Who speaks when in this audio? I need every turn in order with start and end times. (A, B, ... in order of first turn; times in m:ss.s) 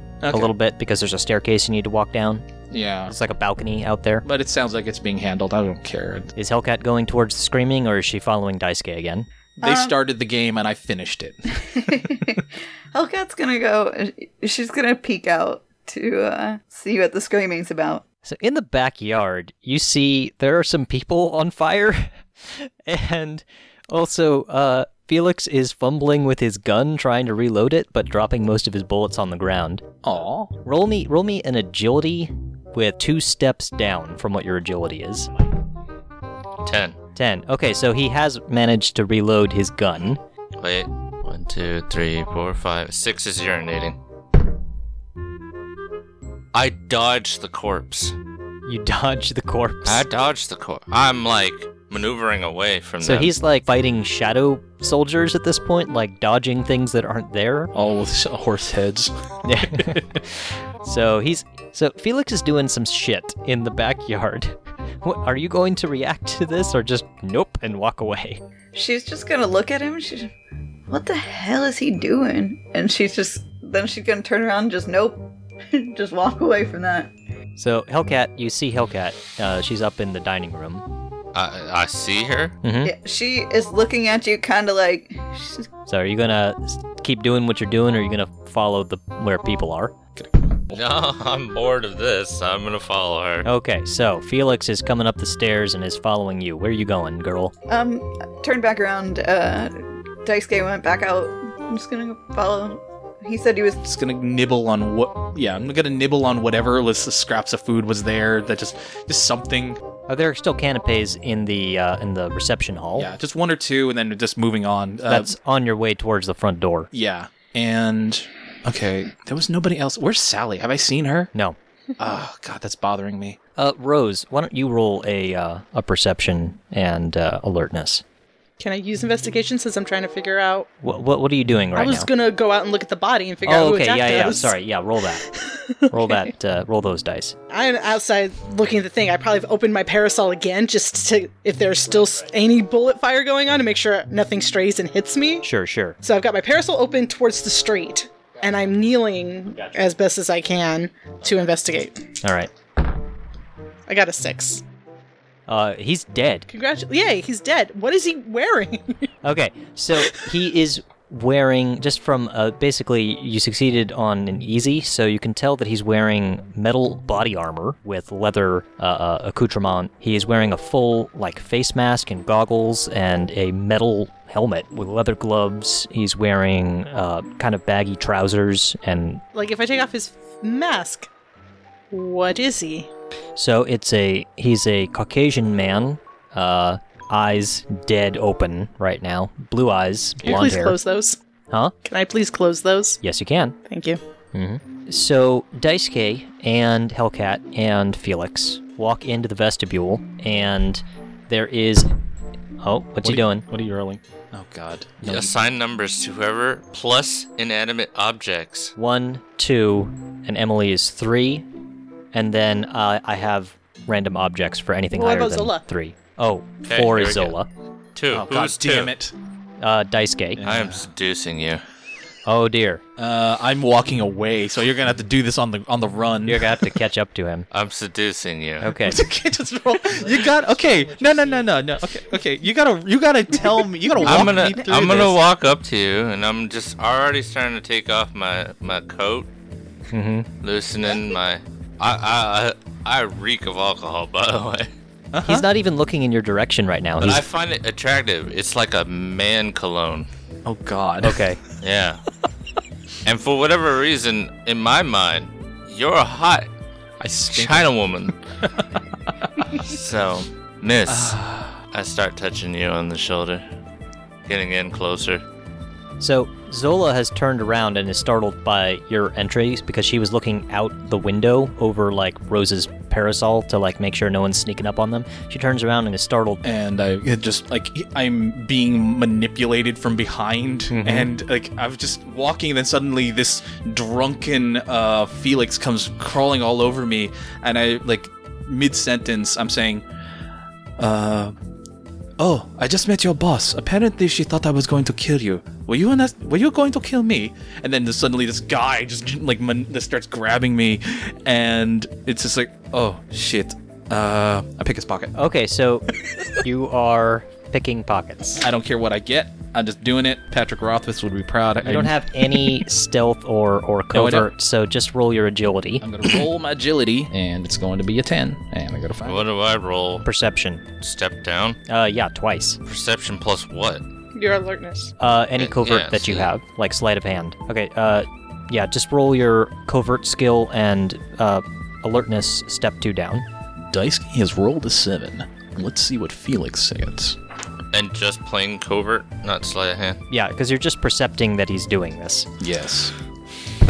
0:00.2-0:00.5 A
0:00.3-0:02.4 B
0:02.7-0:03.2 A
0:03.1-0:04.2 B
0:04.2-0:06.3 A
0:06.4-0:09.3 B
0:09.6-0:11.9 A
0:09.6-0:10.0 C
0:11.6-0:18.0 C
0:18.2-0:29.8 B
0:30.0-0:30.5 A
0:30.6-0:35.3 B
0:36.6-0:37.0 D
0:37.2-0:40.2 B
0:40.6-0:44.0 D
0:46.5-0:48.2 D
0:48.7-0:50.0 B
0:49.9-0:53.3 D
0:53.0-0:57.7 B
0:57.7-1:00.0 A
0:59.4-1:08.4 B
1:08.8-1:10.3 C
1:10.9-1:17.1 C
1:17.6-1:20.9 B
1:21.3-1:22.6 D
1:22.6-1:22.9 B
1:22.8-1:25.7 C
1:25.9-1:30.0 B
1:30.2-1:30.4 A
1:30.7-1:33.5 D
1:33.4-1:37.5 B
1:37.7-1:43.8 C
1:43.8-1:49.8 A
1:50.1-1:53.1 B
1:53.0-1:55.3 A
1:55.1-1:56.9 B
1:56.9-2:01.3 A
2:02.0-2:03.4 A
2:03.6-2:08.0 B
2:08.6-2:10.7 E
2:10.8-2:12.1 B
2:11.8-2:14.6 E
2:13.4-2:15.3 B
2:15.2-2:16.2 E
2:15.9-2:17.4 B
2:17.5-2:25.5 E
2:25.4-2:26.0 B
2:26.0-2:32.1 E
2:32.2-2:32.5 B
2:33.9-2:34.6 E
2:35.5-2:36.5 B
2:36.5-2:39.1 E
2:39.2-2:59.2 B
2:59.3-3:01.1 E
3:01.9-3:02.9 E
3:03.4-3:10.8 B
3:10.2-3:11.2 E
3:11.8-3:13.0 E
3:13.0-3:13.6 B
3:13.7-3:14.0 E
3:14.3-3:21.9 B
3:22.6-3:23.4 B
3:23.0-3:25.0 A
3:25.0-3:25.3 B
3:25.0-3:28.7 D
3:28.8-3:31.5 B
3:32.1-3:37.5 B
3:34.9-3:35.6 E
3:36.6-3:37.4 D
3:38.0-3:38.9 D
3:38.1-3:39.1 A
3:39.6-3:40.4 B
3:40.4-3:40.9 A
3:40.4-3:41.6 D
3:42.3-3:42.8 B
3:43.0-3:46.8 A
3:46.3-3:47.5 B
3:47.5-3:48.8 D
3:48.6-3:49.0 B
3:48.8-3:55.2 A
3:54.0-3:59.3 D
3:59.9-4:00.3 B
4:00.4-4:04.7 D
4:05.1-4:05.5 A
4:05.2-4:07.2 B
4:07.0-4:10.1 D
4:10.4-4:11.3 A
4:11.0-4:11.4 B
4:11.6-4:12.0 D
4:13.0-4:16.5 D
4:17.0-4:19.6 A
4:17.3-4:18.2 D
4:19.5-4:21.2 D
4:20.9-4:21.6 A
4:21.7-4:23.4 D
4:24.3-4:25.2 D
4:26.0-4:36.4 B
4:36.4-4:49.8 A
4:40.7-4:41.1 B
4:50.8-4:51.4 A
4:52.2-5:05.1 A
5:05.2-5:08.4 B
5:08.4-5:12.7 A
5:11.6-5:15.8 B
5:13.9-5:14.3 A
5:15.8-5:19.2 A
5:19.0-5:20.0 D
5:20.0-5:20.6 B
5:20.8-5:21.6 D
5:21.7-5:22.6 B
5:22.6-5:23.8 D
5:24.1-5:24.9 E
5:25.0-5:33.3 B
5:25.4-5:26.3 D
5:33.7-5:37.2 A
5:37.7-5:40.0 D
5:40.1-5:42.3 B
5:42.4-5:42.9 A